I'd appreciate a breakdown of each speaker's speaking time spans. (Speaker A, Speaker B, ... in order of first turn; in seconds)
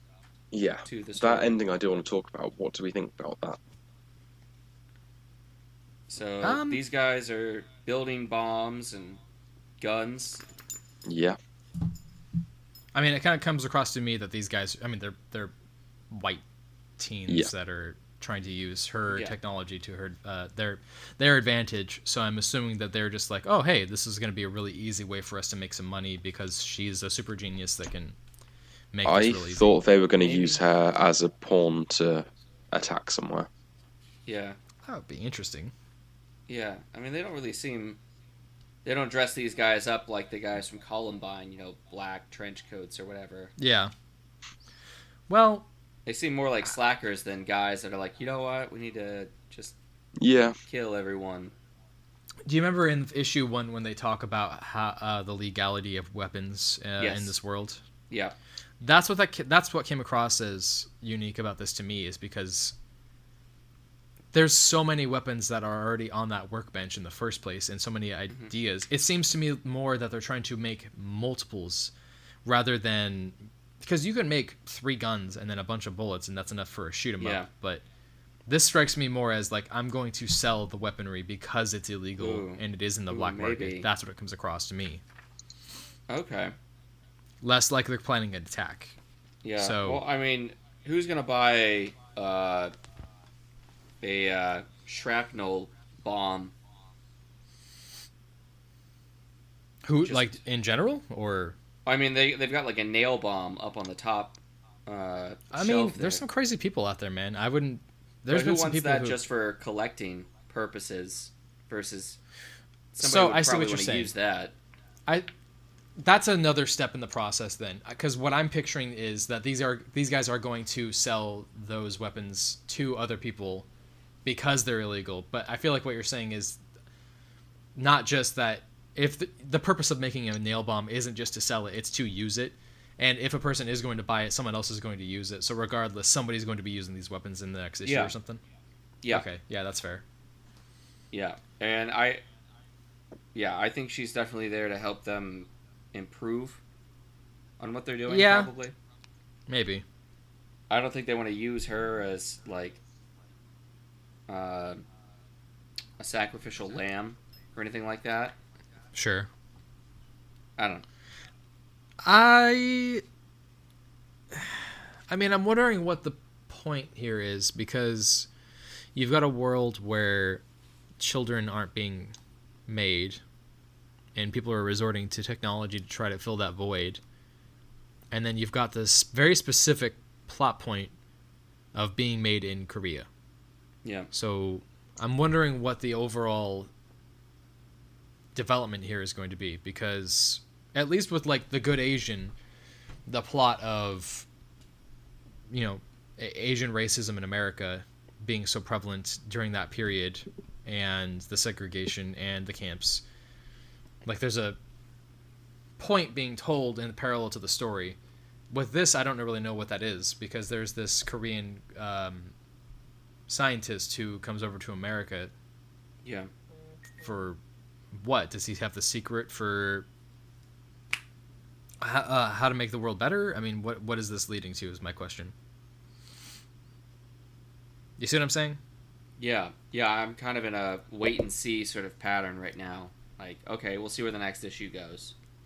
Speaker A: 0.5-3.6, 11.1-11.4, 29.0-33.5, 50.2-50.6
Speaker B: 0.9-1.6, 6.1-9.2, 9.8-10.4, 30.2-30.6, 34.2-34.6, 36.5-38.0, 38.8-43.5, 46.0-49.8, 50.6-51.5, 57.0-57.3, 58.1-58.4, 77.2-77.5, 82.2-83.9, 86.1-86.5, 89.4-92.7, 94.0-96.5, 100.0-100.3, 101.8-106.2, 108.3-112.2, 112.9-114.5, 137.8-138.1, 141.1-142.2, 143.3-146.6, 147.6-148.7, 150.7-152.8, 154.3-154.8, 156.0-158.3, 160.6-160.8, 183.8-184.1, 216.0-216.3, 229.2-235.1
Speaker C: 6.4-6.8, 12.9-15.5, 16.1-16.4, 17.0-28.2, 28.9-29.8, 34.8-35.7, 43.6-43.9, 45.3-45.7, 52.5-57.8, 58.8-62.7, 64.3-71.9, 72.4-77.8, 78.5-85.0, 87.4-88.9, 89.6-90.0, 99.8-101.5, 105.5-109.2, 113.0-114.1, 116.0-123.7, 124.2-126.6, 127.7-138.4, 139.1-140.0, 148.1-148.5, 149.5-149.8, 158.9-159.3, 162.0-163.0, 164.3-168.3, 168.9-170.4, 171.0-172.1, 172.7-173.2, 174.1-177.0, 178.1-180.9, 181.7-183.1, 184.1-186.7, 188.3-192.3, 193.1-194.2, 195.5-203.0, 204.0-204.6, 205.8-208.0, 208.5-212.3, 213.3-215.3, 217.0-217.4, 217.9-219.9, 221.8-225.3, 228.0-228.6